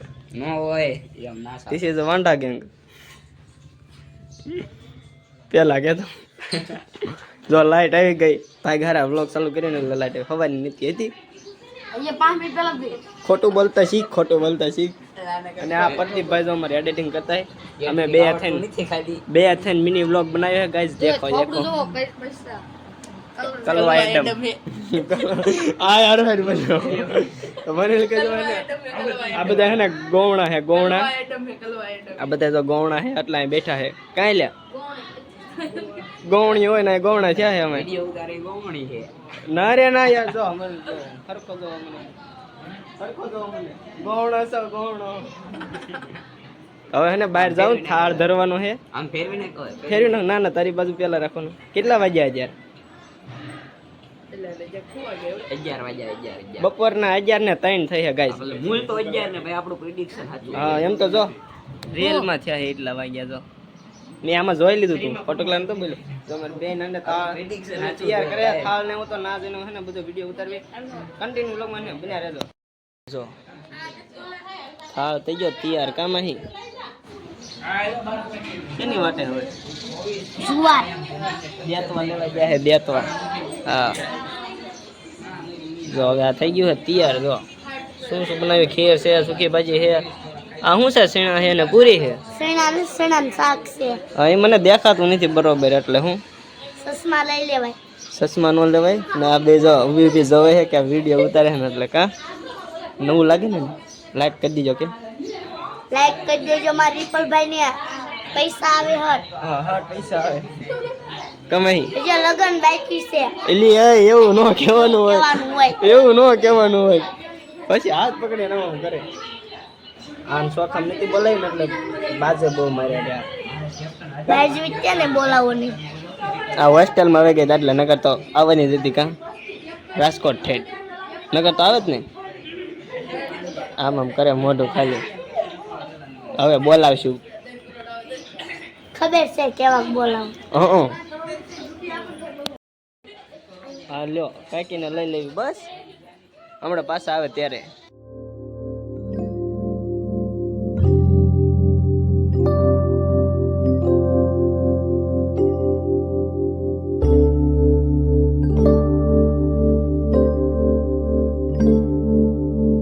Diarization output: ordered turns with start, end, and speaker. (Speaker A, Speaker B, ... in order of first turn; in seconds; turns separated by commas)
Speaker A: 0.3-1.8, Speaker B: 1.7-2.7, Speaker B: 5.5-6.1, Speaker B: 7.5-11.1, Speaker B: 13.2-14.9, Speaker A: 15.2-16.5, Speaker B: 15.6-18.6, Speaker A: 17.8-19.2, Speaker B: 19.3-21.7, Speaker B: 23.6-28.7, Speaker A: 28.9-29.8, Speaker B: 29.3-31.2, Speaker B: 32.2-34.5, Speaker B: 36.2-37.9, Speaker A: 37.5-39.1, Speaker B: 39.5-42.1, Speaker B: 43.0-45.3, Speaker B: 46.9-48.8, Speaker A: 47.4-48.3, Speaker A: 48.9-50.2, Speaker B: 49.9-52.5, Speaker A: 54.6-56.7, Speaker B: 56.6-58.4, Speaker A: 58.3-61.3, Speaker B: 60.5-61.3, Speaker B: 61.9-63.4, Speaker B: 64.2-70.7, Speaker A: 67.0-68.7, Speaker B: 71.2-72.5, Speaker B: 74.9-76.4, Speaker B: 78.8-79.5, Speaker C: 80.4-80.9, Speaker B: 81.6-83.1, Speaker B: 83.7-84.0, Speaker B: 85.8-87.4, Speaker B: 88.0-90.1, Speaker B: 90.6-92.2, Speaker C: 92.3-94.0, Speaker B: 94.2-96.2, Speaker C: 96.8-97.8, Speaker B: 98.1-102.1, Speaker B: 103.0-104.9, Speaker C: 105.9-107.8, Speaker C: 108.3-109.2, Speaker B: 109.4-110.5, Speaker B: 111.5-111.9, Speaker C: 112.0-113.3, Speaker B: 113.5-117.1, Speaker C: 114.8-115.8, Speaker B: 117.7-119.0, Speaker B: 120.3-123.3, Speaker C: 124.3-125.8, Speaker B: 126.6-129.1, Speaker B: 130.0-130.7, Speaker B: 131.3-132.1, Speaker B: 133.8-135.1, Speaker B: 136.4-137.2, Speaker C: 138.9-140.3, Speaker B: 140.5-140.9, Speaker B: 143.9-145.7, Speaker B: 146.6-147.7